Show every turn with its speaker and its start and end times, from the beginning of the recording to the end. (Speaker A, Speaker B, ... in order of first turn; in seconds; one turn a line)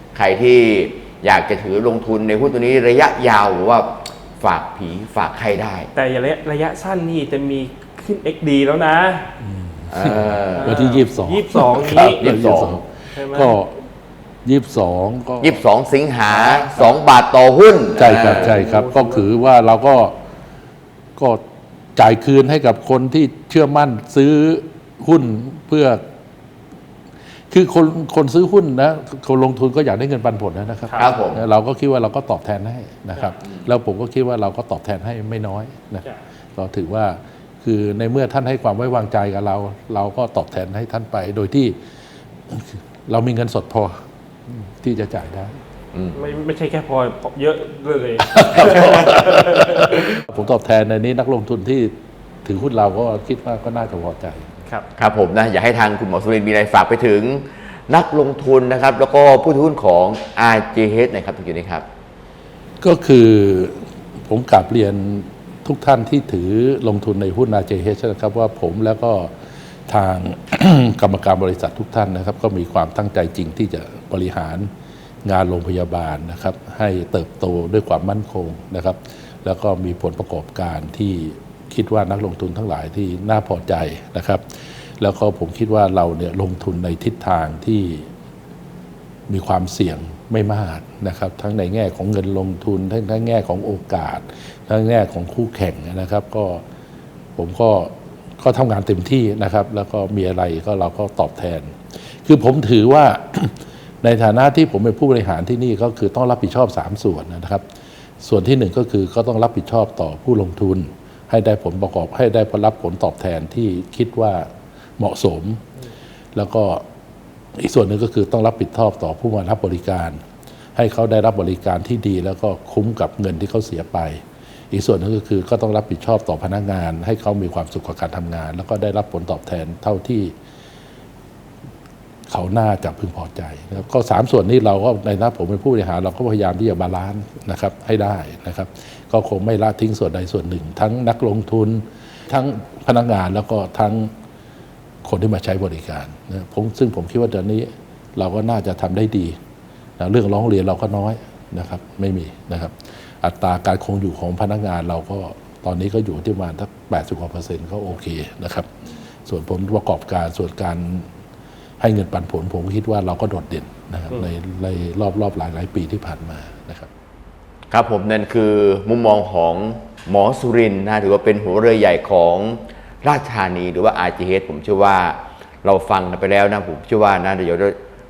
Speaker A: 0.1-5.9
Speaker B: 5.9-9.3
Speaker C: 9.4-13.8
Speaker A: 9.9-10.8
Speaker B: 10.6-12.2
Speaker A: 12.2-12.8
Speaker B: 13.1-13.6
Speaker C: 14.4-15.6
Speaker A: 15.4-18.6
Speaker B: 16.4-16.8
Speaker C: 18.0-20.1
Speaker B: 18.5-19.2
Speaker C: 21.2-21.4
Speaker C: 21.9-26.0
Speaker C: 27.5-36.0
Speaker A: 31.0-31.4
Speaker C: 36.5-41.8
Speaker C: 42.5-43.9
Speaker C: 44.5-45.6
Speaker B: 46.1-50.0
Speaker C: 48.3-51.9
Speaker C: 52.4-54.5
Speaker A: 55.0-61.8
Speaker C: 62.8-69.3
Speaker C: 69.9-74.7
Speaker C: 75.2-84.4
Speaker C: 85.0-88.1
Speaker C: 89.3-96.6
Speaker C: 97.3-107.6
Speaker C: 108.2-115.6
Speaker C: 116.3-116.8
Speaker C: 117.5-120.2
Speaker C: 120.7-130.3
Speaker C: 132.3-144.1
Speaker C: 145.0-149.4
Speaker C: 150.0-158.7
Speaker C: 159.2-161.1
Speaker C: 161.8-166.9
Speaker A: 167.7-177.8